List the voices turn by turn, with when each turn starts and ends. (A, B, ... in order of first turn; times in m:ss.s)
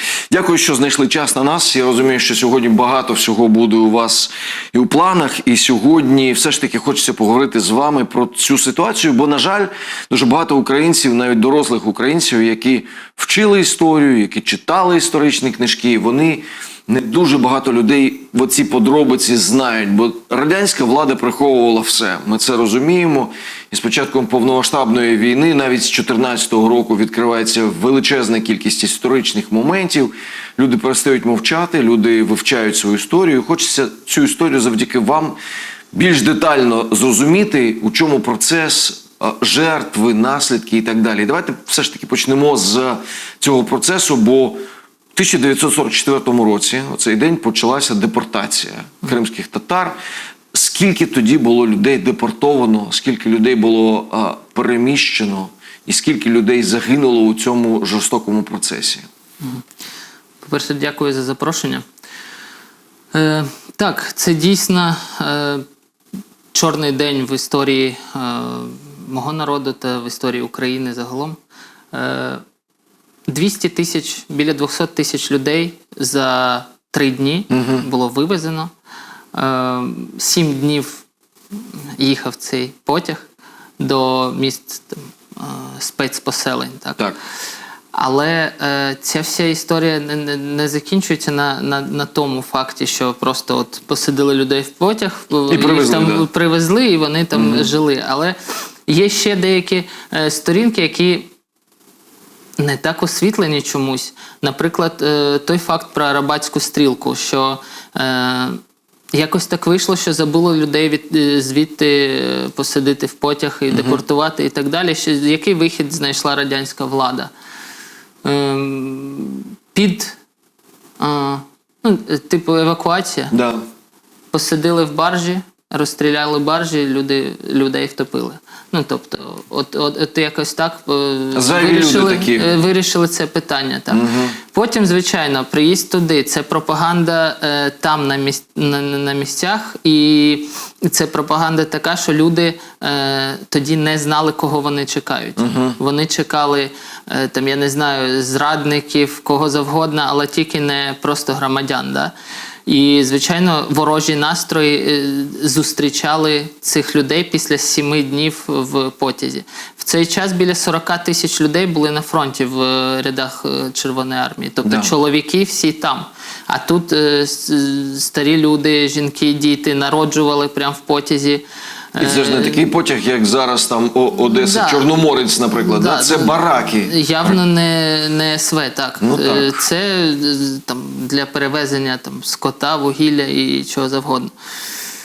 0:00.3-0:35.4 A
0:35.9-0:44.6 A
0:45.1-0:50.0 A
0:50.5-0:59.0 A
1:00.4-1:01.8 B
1:03.1-1:05.6 B
1:06.5-1:11.4 B
1:11.9-1:12.4 B
1:13.3-1:18.7 B
1:17.5-1:17.8 A
1:19.3-1:21.0 B
1:22.0-1:23.3 B
1:23.8-1:27.0 B
1:27.9-1:38.4 B
1:35.5-1:36.3 A
1:37.3-1:37.7 A
1:38.9-1:41.3 B
1:42.6-1:48.6 B
1:49.1-1:57.3 B
1:53.7-1:54.0 A
1:58.2-2:00.2 B
2:01.0-2:03.3 B
2:03.3-2:03.6 A
2:04.3-2:32.1 B
2:11.3-2:12.6 A
2:13.9-2:14.4 A
2:25.4-2:25.8 A
2:32.6-2:52.7 B
2:44.6-2:44.9 A
2:52.0-2:56.9 A
2:54.2-2:54.9 B
2:55.6-3:04.3 B
2:59.0-2:59.5 A